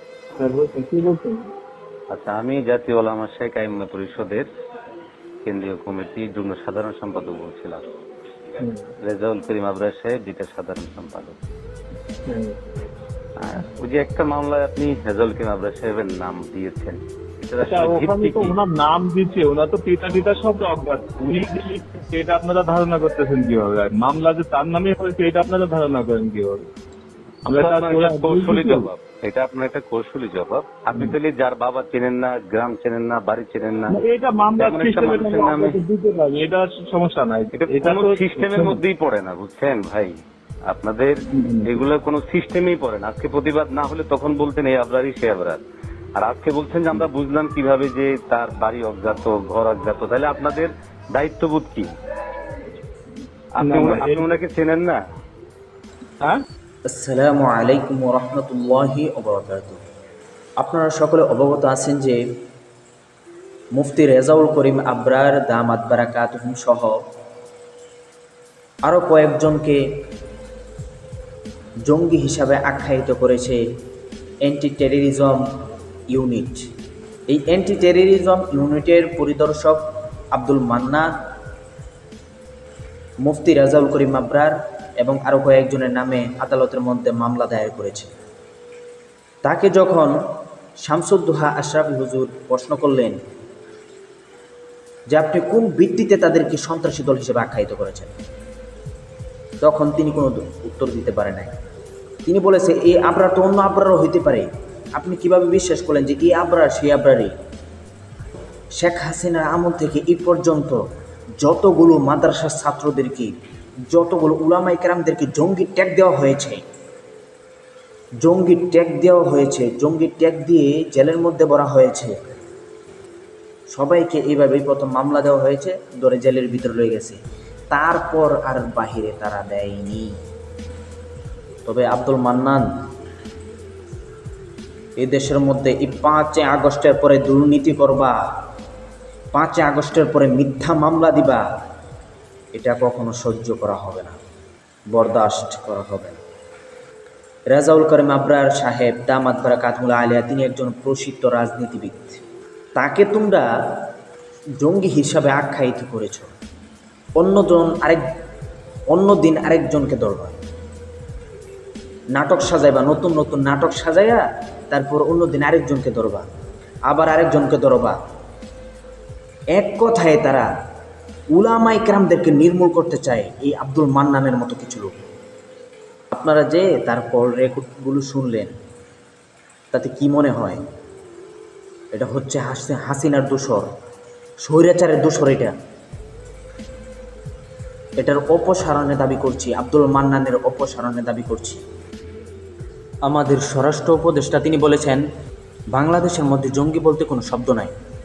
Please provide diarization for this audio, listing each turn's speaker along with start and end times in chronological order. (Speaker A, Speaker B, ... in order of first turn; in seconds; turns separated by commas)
Speaker A: 0.4-1.5, Speaker B: 2.1-4.5, Speaker B: 5.4-7.8, Speaker B: 9.0-11.3, Speaker A: 12.2-12.6, Speaker B: 13.4-18.6, Speaker A: 17.6-26.7, Speaker A: 27.5-28.9, Speaker B: 27.6-34.0, Speaker A: 33.9-38.8, Speaker B: 34.6-35.8, Speaker B: 37.5-45.6, Speaker A: 41.3-41.8, Speaker B: 46.2-51.9, Speaker B: 53.6-55.0, Speaker A: 53.6-54.2, Speaker C: 56.9-59.8, Speaker C: 60.6-62.2, Speaker C: 63.8-67.0, Speaker C: 68.8-69.8, Speaker C: 71.9-73.6, Speaker C: 74.4-75.4, Speaker C: 76.1-76.7, Speaker C: 77.3-79.8, Speaker C: 80.3-81.1, Speaker C: 83.2-88.1, Speaker C: 89.4-90.1, Speaker C: 90.8-93.2, Speaker C: 95.1-98.1, Speaker C: 99.6-101.5, Speaker C: 102.2-107.3, Speaker C: 108.8-110.8, Speaker C: 111.4-113.3, Speaker C: 113.9-116.6, Speaker C: 118.2-122.1, Speaker C: 123.7-127.2, Speaker C: 127.7-130.1, Speaker C: 131.6-132.6, Speaker C: 135.0-138.2, Speaker C: 139.3-141.4, Speaker C: 142.5-144.2, Speaker C: 144.9-146.2, Speaker C: 147.5-152.2, Speaker C: 152.8-153.4, Speaker C: 154.6-156.3, Speaker C: 157.2-158.0, Speaker C: 158.9-160.4, Speaker C: 162.1-166.2, Speaker C: 166.9-167.9, Speaker C: 169.6-170.5, Speaker C: 171.3-174.9, Speaker C: 176.1-178.5, Speaker C: 179.7-180.6, Speaker C: 181.9-183.7, Speaker C: 184.4-185.5, Speaker C: 188.0-191.6, Speaker C: 193.1-195.0, Speaker C: 195.7-197.7